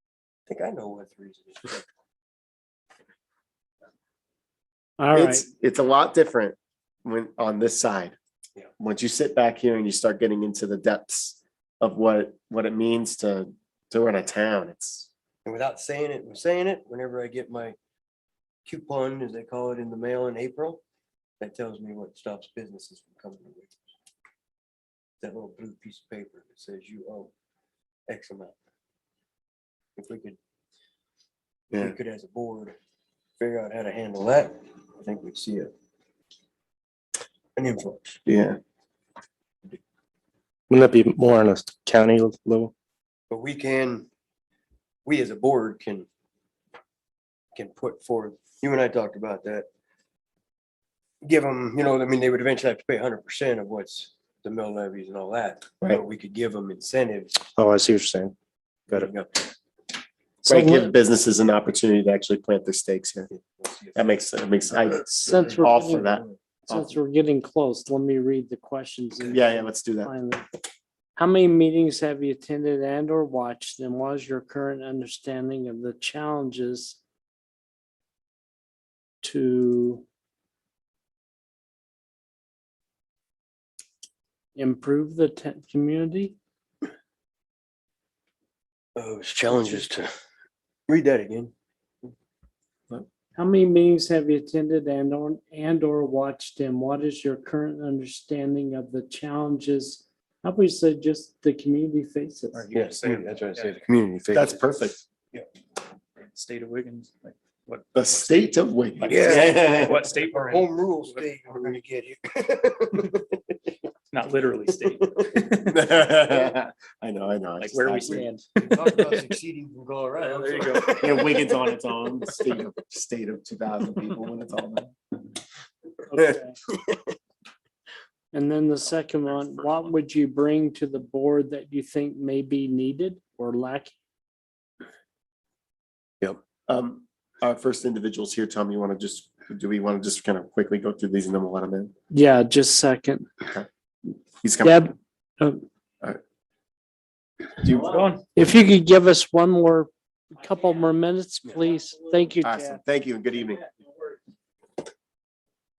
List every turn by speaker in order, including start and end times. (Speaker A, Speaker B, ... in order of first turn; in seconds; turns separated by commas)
Speaker A: 0.5-1.8, Speaker B: 5.0-5.5, Speaker C: 5.1-8.2, Speaker C: 8.8-15.1, Speaker A: 15.4-17.8, Speaker A: 18.6-20.8, Speaker A: 21.4-23.7, Speaker A: 25.2-27.3, Speaker A: 28.1-28.5, Speaker A: 29.9-30.4, Speaker A: 31.7-32.8, Speaker A: 33.4-35.7, Speaker A: 37.5-38.2, Speaker C: 38.3-38.6, Speaker D: 40.7-42.7, Speaker A: 43.3-44.1, Speaker A: 45.0-46.1, Speaker A: 47.5-49.7, Speaker A: 51.2-57.4, Speaker D: 57.5-58.3, Speaker A: 58.9-59.5, Speaker B: 60.5-60.9, Speaker C: 60.5-63.3, Speaker A: 63.3-64.1, Speaker C: 63.9-67.0, Speaker B: 65.0-66.1, Speaker A: 65.3-66.4, Speaker B: 66.7-70.5, Speaker C: 69.3-70.1, Speaker B: 71.2-77.0, Speaker B: 79.2-80.0, Speaker B: 84.5-86.3, Speaker A: 89.0-90.1, Speaker A: 90.9-91.5, Speaker B: 93.3-102.7, Speaker E: 102.5-103.8, Speaker A: 102.7-104.6, Speaker C: 104.3-105.0, Speaker E: 106.3-111.3, Speaker C: 107.9-110.0, Speaker A: 109.1-113.5, Speaker E: 114.1-115.9, Speaker C: 115.7-118.3, Speaker E: 117.6-119.4, Speaker A: 118.5-121.6, Speaker E: 120.2-121.2, Speaker C: 121.0-124.9, Speaker B: 126.1-126.5, Speaker A: 126.2-127.0, Speaker B: 128.3-133.9, Speaker C: 136.7-141.9, Speaker B: 142.1-143.3, Speaker C: 144.4-144.8, Speaker B: 144.6-145.6, Speaker C: 147.6-148.1, Speaker E: 147.8-148.2, Speaker B: 148.3-152.8, Speaker C: 152.4-153.6